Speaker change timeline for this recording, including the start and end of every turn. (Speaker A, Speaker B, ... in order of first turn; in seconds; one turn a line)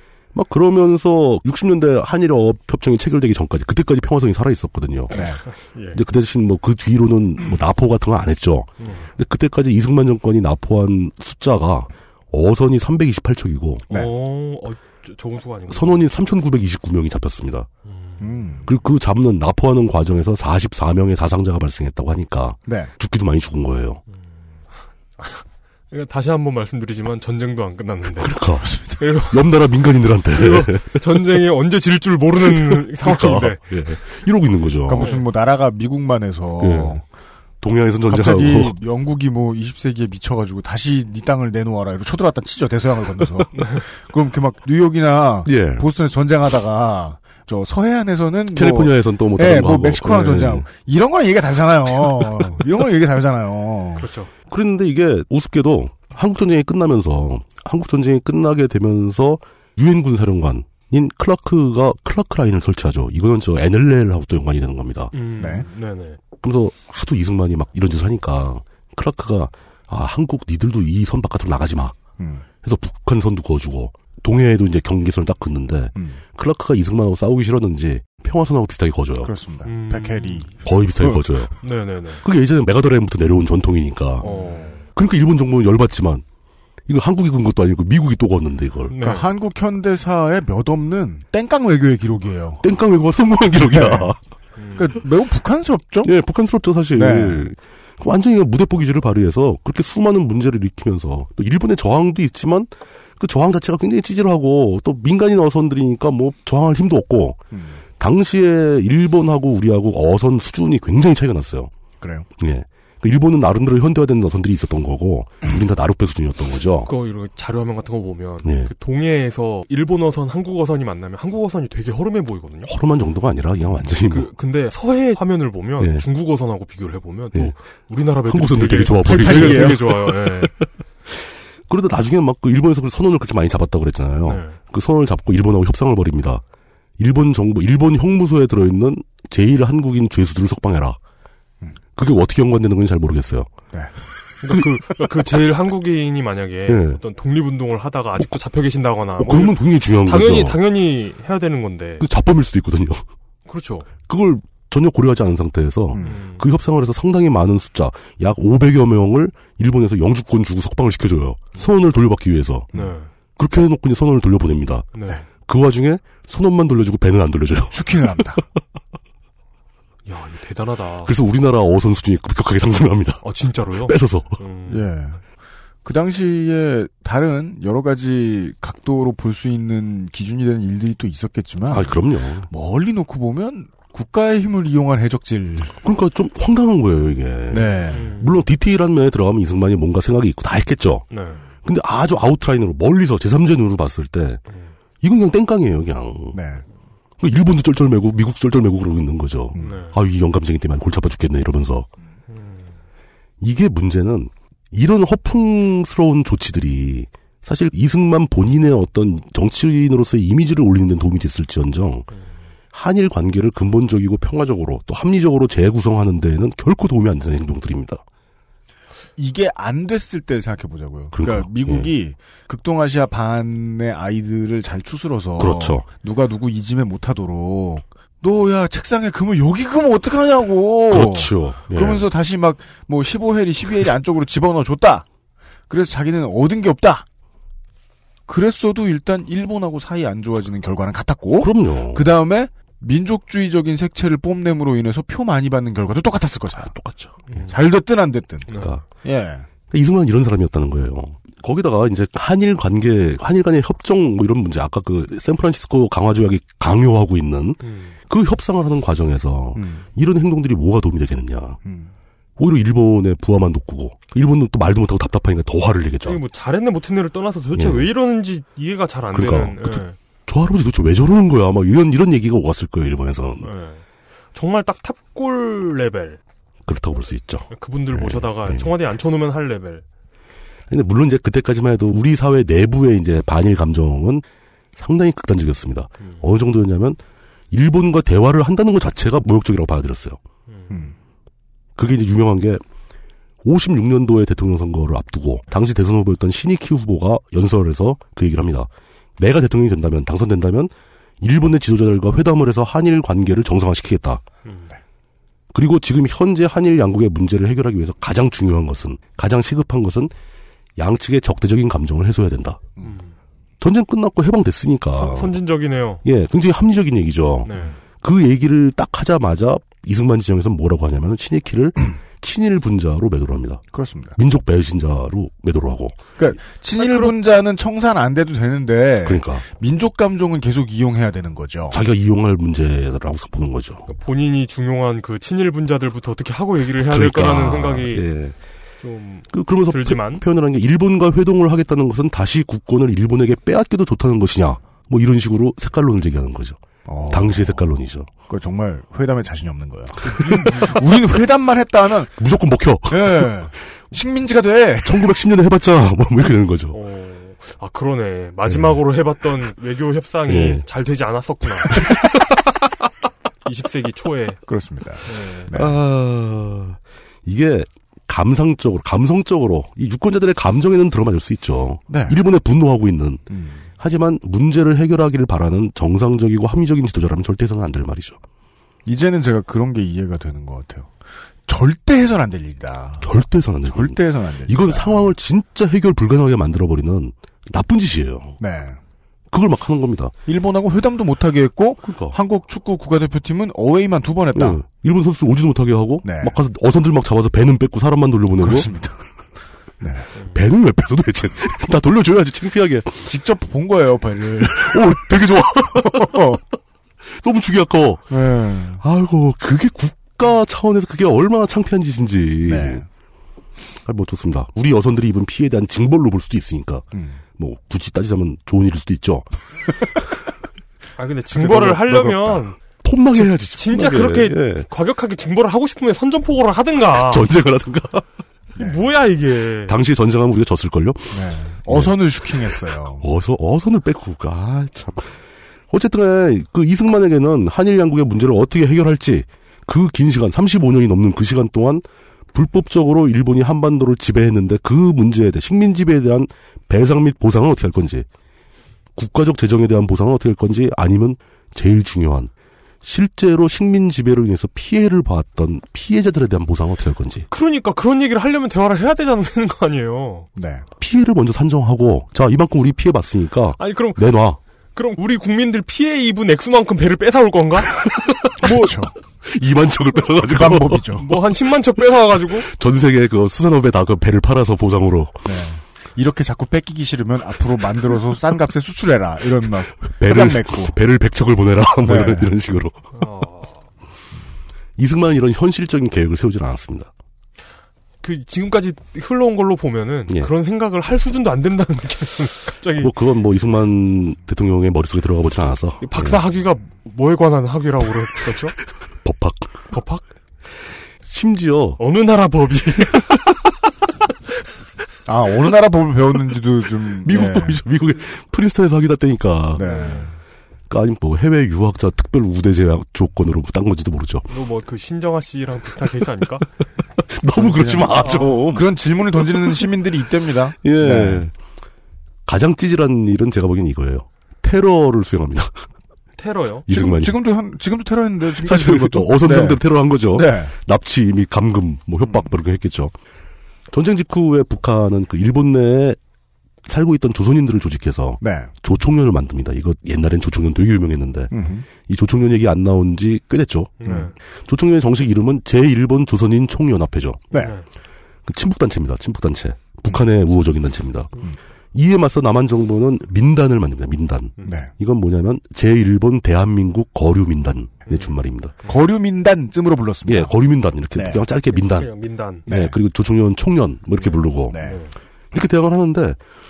Speaker A: 0.3-5.2
Speaker B: 5.1-5.4
Speaker C: 5.5-6.0
Speaker A: 5.9-13.9
Speaker C: 8.8-9.1
Speaker C: 13.9-16.0
Speaker A: 15.7-17.7
Speaker C: 17.9-18.3
Speaker B: 18.2-18.7
Speaker A: 18.7-24.0
Speaker C: 25.2-28.4
Speaker A: 28.2-31.2
Speaker C: 29.0-29.4
Speaker C: 30.3-33.6
Speaker A: 32.5-35.1
Speaker B: 34.9-37.0
Speaker C: 35.0-35.2
Speaker A: 36.6-37.0
Speaker A: 37.6-38.8
Speaker B: 38.1-54.1
Speaker A: 45.5-45.9
Speaker A: 48.5-50.7
Speaker C: 54.0-54.3
Speaker A: 54.5-65.1
Speaker C: 65.1-66.2
Speaker B: 65.4-65.7
Speaker A: 66.4-72.0
Speaker B: 72.2-72.5
Speaker A: 72.6-79.3
Speaker B: 76.0-76.2
Speaker B: 79.2-81.3
Speaker C: 79.7-80.5
Speaker A: 80.6-81.5
Speaker C: 81.6-82.2
Speaker A: 82.2-84.3
Speaker C: 84.2-84.9
Speaker A: 84.9-86.2
Speaker A: 86.9-89.0
Speaker C: 88.9-89.3
Speaker B: 89.0-92.6
Speaker A: 92.6-94.2
Speaker B: 93.6-94.1
Speaker C: 94.6-94.8
Speaker B: 94.8-96.1
Speaker A: 96.0-107.4
Speaker B: 97.0-97.5
Speaker B: 107.5-107.8
Speaker A: 108.0-111.7
Speaker B: 112.0-112.3
Speaker A: 112.4-116.9
Speaker C: 116.8-122.7
Speaker A: 118.4-118.7
Speaker A: 122.7-124.3
Speaker C: 124.1-130.5
Speaker A: 125.8-126.1
Speaker A: 128.2-130.7
Speaker B: 129.0-130.1
Speaker A: 131.7-136.4
Speaker C: 134.2-134.6
Speaker A: 137.0-141.0
Speaker A: 142.0-143.5
Speaker C: 144.4-152.1
Speaker A: 144.5-145.3
Speaker A: 146.7-147.0
Speaker A: 149.2-150.6
Speaker A: 152.0-153.1
Speaker C: 153.5-153.9
Speaker A: 154.1-162.7
Speaker B: 155.9-156.2
Speaker C: 156.0-156.4
Speaker C: 162.7-163.1
Speaker A: 163.4-164.9
Speaker C: 164.9-165.2
Speaker A: 165.4-168.4
Speaker B: 167.7-168.4
Speaker C: 170.1-171.1
Speaker A: 171.0-173.2
Speaker C: 173.2-174.8
Speaker A: 173.8-174.4
Speaker B: 174.7-175.2
Speaker B: 175.8-182.0
Speaker A: 181.7-182.5
Speaker B: 182.5-185.8
Speaker A: 185.8-191.1
Speaker B: 187.5-188.1
Speaker C: 187.9-188.4
Speaker C: 191.1-191.5
Speaker A: 191.7-194.4
Speaker A: 195.0-196.4
Speaker B: 196.3-196.6
Speaker A: 197.2-201.9
Speaker C: 199.6-200.0
Speaker C: 202.3-202.7
Speaker A: 203.4-212.1
Speaker A: 212.7-218.0
Speaker B: 219.2-235.1
Speaker A: 221.1-221.9
Speaker A: 225.4-225.8
Speaker A: 230.9-232.1
Speaker B: 235.7-237.1
Speaker B: 238.3-246.8
Speaker A: 241.4-242.1
Speaker A: 246.6-247.3
Speaker C: 247.3-247.6
Speaker B: 247.5-248.5
Speaker C: 248.5-248.7
Speaker A: 248.6-248.8
Speaker B: 249.0-249.5
Speaker A: 249.7-261.6
Speaker C: 257.6-258.0
Speaker B: 259.6-259.9
Speaker B: 261.6-261.9
Speaker A: 262.4-266.2
Speaker C: 266.0-270.0
Speaker A: 267.6-267.9
Speaker A: 269.1-273.5
Speaker C: 273.4-273.8
Speaker C: 274.3-276.2
Speaker A: 276.7-278.7
Speaker C: 277.5-279.9
Speaker A: 280.7-284.2
Speaker A: 284.8-287.0
Speaker A: 287.5-290.2
Speaker C: 290.5-290.8
Speaker A: 291.8-292.6
Speaker A: 293.4-304.2
Speaker C: 304.4-304.7
Speaker A: 305.5-310.1
Speaker A: 310.8-312.6
Speaker C: 312.8-313.1
Speaker A: 313.6-315.4
Speaker C: 314.9-316.0
Speaker A: 316.0-323.6
Speaker C: 317.4-317.8
Speaker B: 323.7-324.2
Speaker A: 324.2-326.1
Speaker B: 326.2-331.8
Speaker A: 326.8-327.1
Speaker A: 329.0-329.4
Speaker A: 331.7-333.9
Speaker C: 333.9-338.1
Speaker A: 336.8-338.4
Speaker C: 338.8-340.2
Speaker A: 339.3-348.1
Speaker B: 346.9-347.7
Speaker B: 348.3-352.2
Speaker C: 350.0-350.8
Speaker A: 352.2-353.3
Speaker B: 352.9-355.1
Speaker A: 354.9-356.8
Speaker C: 356.7-361.9
Speaker A: 360.3-360.6
Speaker A: 361.8-362.0
Speaker C: 363.4-364.4
Speaker B: 364.5-365.8
Speaker C: 365.1-365.5
Speaker A: 365.5-373.2
Speaker B: 371.9-372.2
Speaker B: 373.3-373.6
Speaker A: 373.8-378.2
Speaker B: 378.9-380.9
Speaker B: 381.5-383.1
Speaker A: 383.0-388.4
Speaker B: 383.7-385.1
Speaker B: 388.4-388.8
Speaker A: 389.3-390.1
Speaker B: 390.3-394.6
Speaker A: 391.8-392.2
Speaker A: 394.3-398.7
Speaker B: 396.0-396.4
Speaker B: 398.4-399.0
Speaker B: 399.8-400.1
Speaker A: 400.3-403.1
Speaker B: 403.1-406.4
Speaker A: 404.4-406.4
Speaker A: 407.1-408.1
Speaker B: 408.1-408.8
Speaker A: 408.8-412.8
Speaker B: 412.4-412.9
Speaker A: 413.9-416.9
Speaker B: 416.9-417.2
Speaker A: 417.4-419.3
Speaker C: 421.0-422.6
Speaker B: 421.4-422.4
Speaker A: 422.8-424.7
Speaker C: 423.1-427.3
Speaker A: 427.0-428.0
Speaker B: 428.6-428.8
Speaker C: 428.6-429.8
Speaker A: 429.7-431.9
Speaker B: 431.1-433.1
Speaker A: 433.0-435.1
Speaker A: 435.7-448.1
Speaker A: 449.0-452.3
Speaker A: 452.8-457.3
Speaker C: 457.3-460.3
Speaker B: 460.4-460.6
Speaker A: 460.8-464.4
Speaker C: 463.6-464.1
Speaker C: 464.8-467.8
Speaker A: 468.0-468.2
Speaker C: 468.4-468.7
Speaker B: 468.4-468.9
Speaker A: 469.2-471.0
Speaker B: 470.3-471.1
Speaker C: 471.0-472.5
Speaker A: 472.4-475.2
Speaker B: 475.2-480.8
Speaker A: 480.0-482.9
Speaker B: 481.8-482.3
Speaker C: 482.9-483.6
Speaker A: 484.8-486.9
Speaker C: 488.0-492.9
Speaker A: 492.8-496.2
Speaker C: 495.8-498.6
Speaker A: 499.0-499.7
Speaker C: 499.7-500.1
Speaker A: 501.1-501.8
Speaker C: 501.8-503.2
Speaker B: 505.1-507.6
Speaker A: 507.0-509.6
Speaker B: 509.6-510.1
Speaker C: 509.6-510.1
Speaker A: 510.7-514.3
Speaker C: 514.3-516.5
Speaker A: 517.1-518.6
Speaker B: 517.4-521.3
Speaker A: 519.2-519.6
Speaker A: 520.6-521.3
Speaker A: 522.3-525.6
Speaker C: 526.2-526.7
Speaker A: 526.7-527.1
Speaker B: 526.7-530.5
Speaker A: 528.4-532.9
Speaker A: 533.7-536.0
Speaker A: 536.6-547.3
Speaker B: 538.2-538.5
Speaker B: 541.3-541.7
Speaker C: 543.8-544.1
Speaker C: 547.3-547.6
Speaker A: 548.3-551.1
Speaker A: 551.7-558.5
Speaker B: 554.4-554.7
Speaker C: 557.9-558.7
Speaker B: 558.7-560.3
Speaker A: 560.1-561.9
Speaker B: 561.0-561.2
Speaker C: 561.5-562.5
Speaker A: 562.5-564.6
Speaker B: 562.5-562.8
Speaker C: 564.0-564.9
Speaker B: 564.5-564.8
Speaker A: 565.3-566.2